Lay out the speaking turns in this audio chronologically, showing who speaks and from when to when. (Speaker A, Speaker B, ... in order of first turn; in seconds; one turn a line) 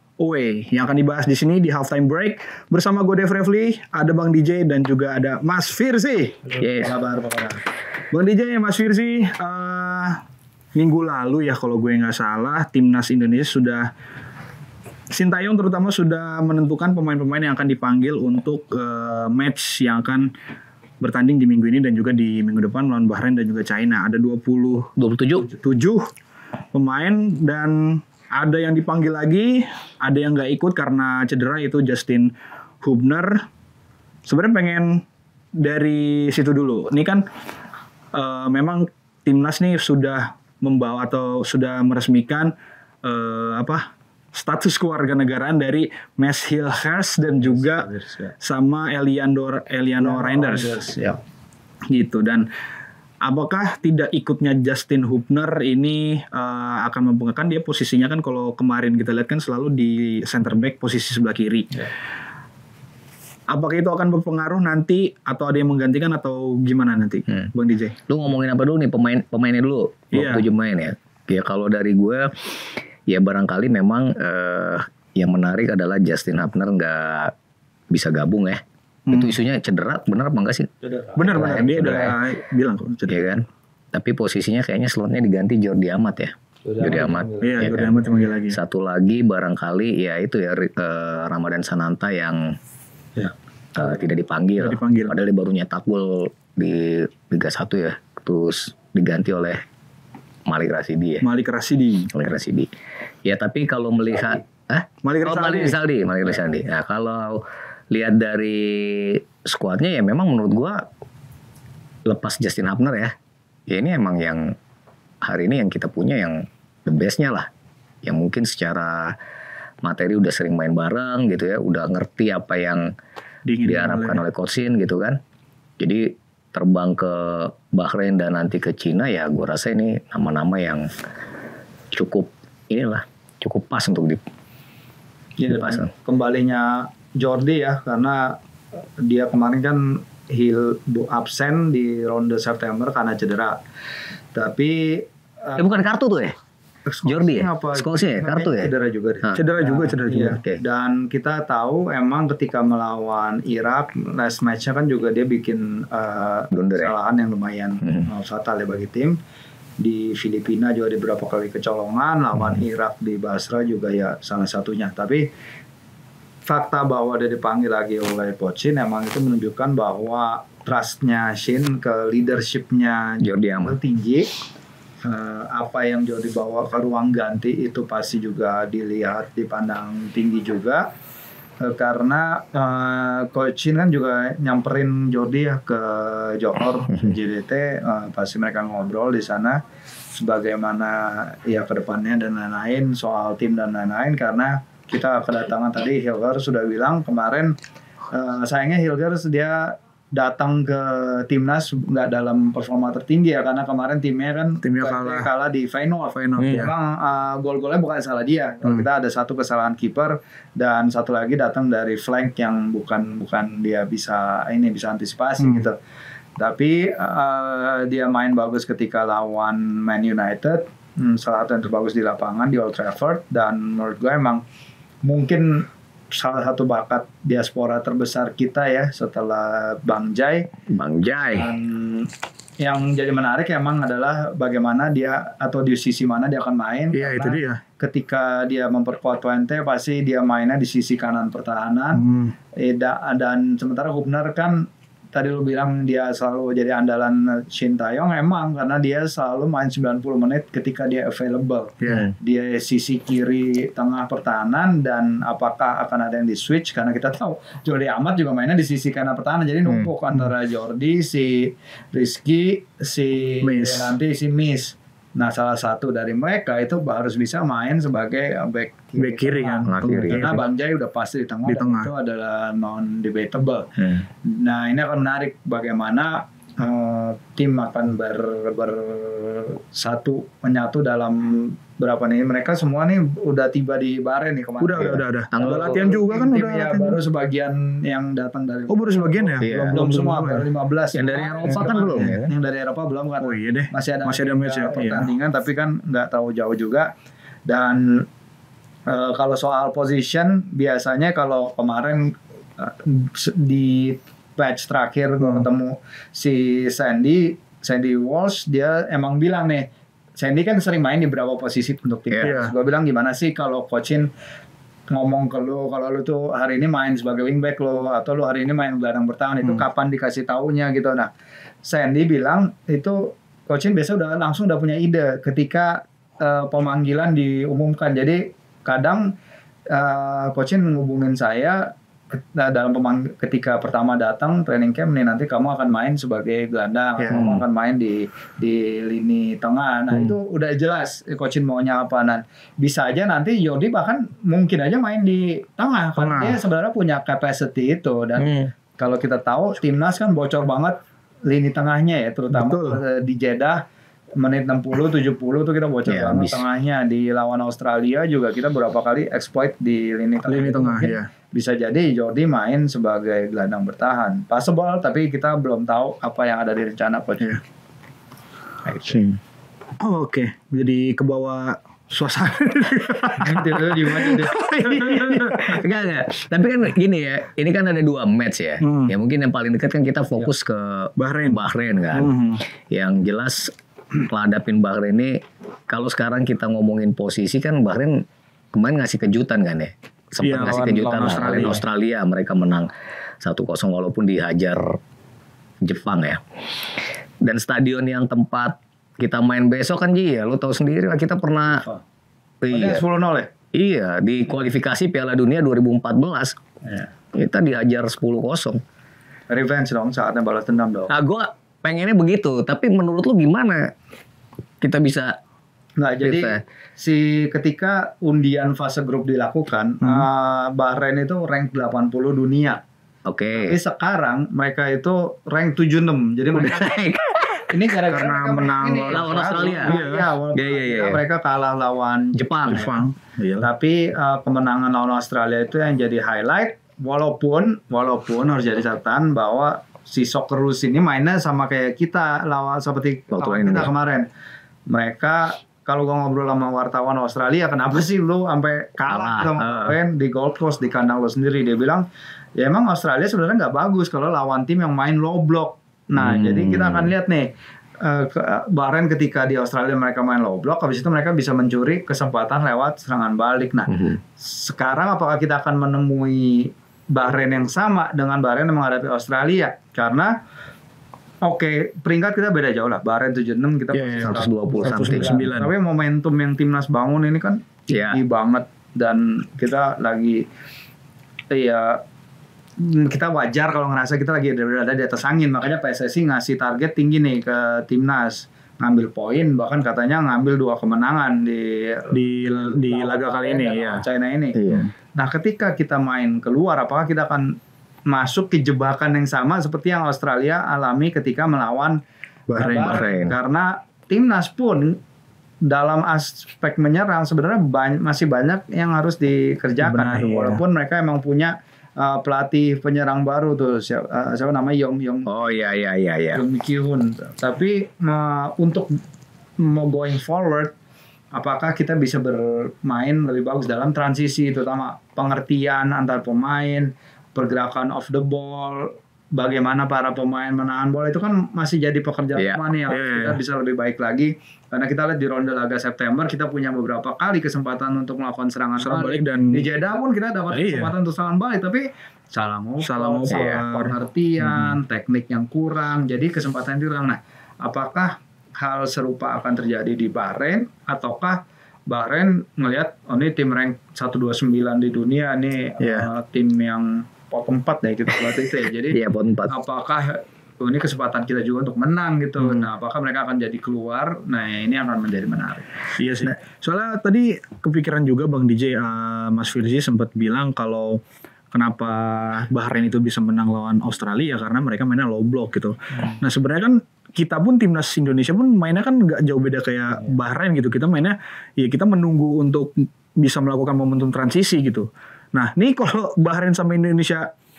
Speaker A: 0.2-6.4
Speaker B: 6.5-7.6
Speaker C: 6.6-6.9
Speaker A: 8.1-10.2
Speaker A: 10.7-13.9
Speaker A: 15.1-20.3
Speaker A: 21.0-24.9
Speaker C: 25.0-25.4
Speaker A: 25.4-26.0
Speaker A: 26.7-32.3
Speaker A: 32.8-33.3
Speaker A: 34.2-35.0
Speaker A: 35.6-37.2
Speaker A: 38.1-42.5
Speaker A: 43.0-47.9
Speaker B: 47.4-48.3
Speaker A: 48.4-50.8
Speaker B: 50.0-51.2
Speaker A: 51.9-52.4
Speaker A: 53.2-61.8
Speaker A: 63.5-68.0
Speaker C: 68.1-72.3
Speaker A: 70.1-70.4
Speaker C: 73.1-77.3
Speaker C: 77.9-80.7
Speaker A: 79.1-79.3
Speaker B: 80.8-81.5
Speaker A: 81.2-83.2
Speaker C: 81.2-82.2
Speaker C: 83.1-88.0
Speaker B: 86.7-87.9
Speaker A: 87.4-88.6
Speaker C: 88.5-92.5
Speaker B: 93.2-94.1
Speaker C: 93.8-99.6
Speaker A: 94.6-95.2
Speaker C: 100.5-101.2
Speaker A: 101.2-102.1
Speaker C: 102.1-102.7
Speaker C: 103.2-110.8
Speaker A: 105.0-105.8
Speaker C: 112.0-113.1
Speaker C: 113.7-114.5
Speaker C: 115.2-117.5
Speaker C: 118.0-119.2
Speaker C: 119.8-122.9
Speaker A: 123.5-124.2
Speaker C: 123.6-125.2
Speaker C: 125.8-130.9
Speaker C: 131.9-134.2
Speaker B: 135.4-143.6
Speaker C: 135.5-135.9
Speaker B: 144.3-145.7
Speaker C: 145.6-146.3
Speaker B: 146.9-159.2
Speaker C: 147.1-148.7
Speaker A: 149.3-150.4
Speaker C: 150.3-150.6
Speaker C: 156.5-156.9
Speaker B: 159.8-165.3
Speaker B: 166.5-174.3
Speaker C: 173.2-173.8
Speaker B: 175.0-180.9
Speaker B: 181.6-189.6
Speaker B: 190.2-197.5
Speaker B: 198.1-215.8
Speaker A: 204.6-205.3
Speaker A: 206.2-206.7
Speaker B: 216.4-224.4
Speaker B: 225.0-230.5
Speaker C: 230.7-231.5
Speaker B: 231.3-232.1
Speaker B: 232.6-242.0
Speaker A: 236.9-237.6
Speaker A: 241.9-242.3
Speaker B: 242.6-273.7
Speaker A: 251.8-252.1
Speaker A: 263.4-263.9
Speaker A: 269.0-270.4
Speaker C: 269.7-270.3
Speaker A: 271.4-271.9
Speaker C: 273.8-274.0
Speaker B: 274.2-296.9
Speaker A: 284.6-287.0
Speaker C: 284.8-285.8
Speaker A: 288.7-290.5
Speaker C: 289.4-289.7
Speaker C: 290.9-292.3
Speaker A: 291.5-292.1
Speaker A: 293.2-295.1
Speaker B: 297.5-298.0
Speaker B: 298.9-309.7
Speaker B: 310.2-314.1
Speaker A: 312.2-312.5
Speaker B: 314.9-321.1
Speaker B: 321.6-329.1
Speaker B: 329.7-353.6
Speaker C: 337.1-337.4
Speaker A: 346.0-346.4
Speaker C: 348.2-348.5
Speaker A: 352.3-352.8
Speaker B: 354.2-367.3
Speaker C: 355.9-356.4
Speaker A: 360.2-361.1
Speaker B: 368.6-369.0
Speaker A: 368.9-369.1
Speaker A: 369.8-375.6
Speaker B: 373.2-375.5
Speaker C: 375.3-382.1
Speaker A: 378.6-378.9
Speaker A: 381.0-382.4
Speaker C: 382.7-392.7
Speaker A: 390.2-391.6
Speaker C: 393.2-394.8
Speaker C: 395.6-396.2
Speaker C: 397.2-401.6
Speaker C: 402.4-402.8
Speaker B: 402.5-403.3
Speaker C: 403.5-406.4
Speaker C: 407.1-408.6
Speaker B: 409.3-410.9
Speaker C: 410.9-413.7
Speaker C: 414.6-415.1
Speaker B: 415.8-422.6
Speaker C: 416.0-416.4
Speaker C: 423.1-423.6
Speaker B: 423.3-426.7
Speaker C: 426.3-427.4
Speaker B: 427.5-432.7
Speaker A: 427.9-430.1
Speaker C: 428.9-429.8
Speaker C: 430.3-431.0
Speaker C: 432.1-432.7
Speaker A: 432.5-433.5
Speaker B: 433.4-444.1
Speaker C: 443.1-443.7
Speaker B: 444.7-451.8
Speaker C: 448.9-449.8
Speaker B: 452.4-457.3
Speaker C: 455.9-456.9
Speaker B: 457.8-470.1
Speaker B: 471.2-480.2
Speaker A: 473.7-475.5
Speaker C: 474.0-475.1
Speaker C: 477.7-478.0
Speaker B: 481.3-481.8
Speaker B: 482.6-494.4
Speaker A: 491.9-493.8
Speaker C: 494.3-494.7
Speaker B: 494.9-497.4
Speaker B: 497.9-501.8
Speaker A: 502.3-502.9
Speaker B: 502.4-504.8
Speaker C: 502.5-503.1
Speaker B: 505.4-515.3
Speaker A: 509.6-510.4
Speaker C: 515.0-516.2
Speaker B: 516.1-518.8
Speaker B: 519.4-520.5
Speaker B: 521.1-565.5
Speaker C: 532.1-532.4
Speaker A: 532.7-533.2
Speaker A: 538.6-539.5
Speaker A: 540.3-540.7
Speaker A: 542.6-543.7
Speaker C: 543.1-543.4
Speaker A: 555.6-555.9
Speaker C: 558.7-559.3
Speaker A: 565.8-570.8
Speaker A: 571.3-587.1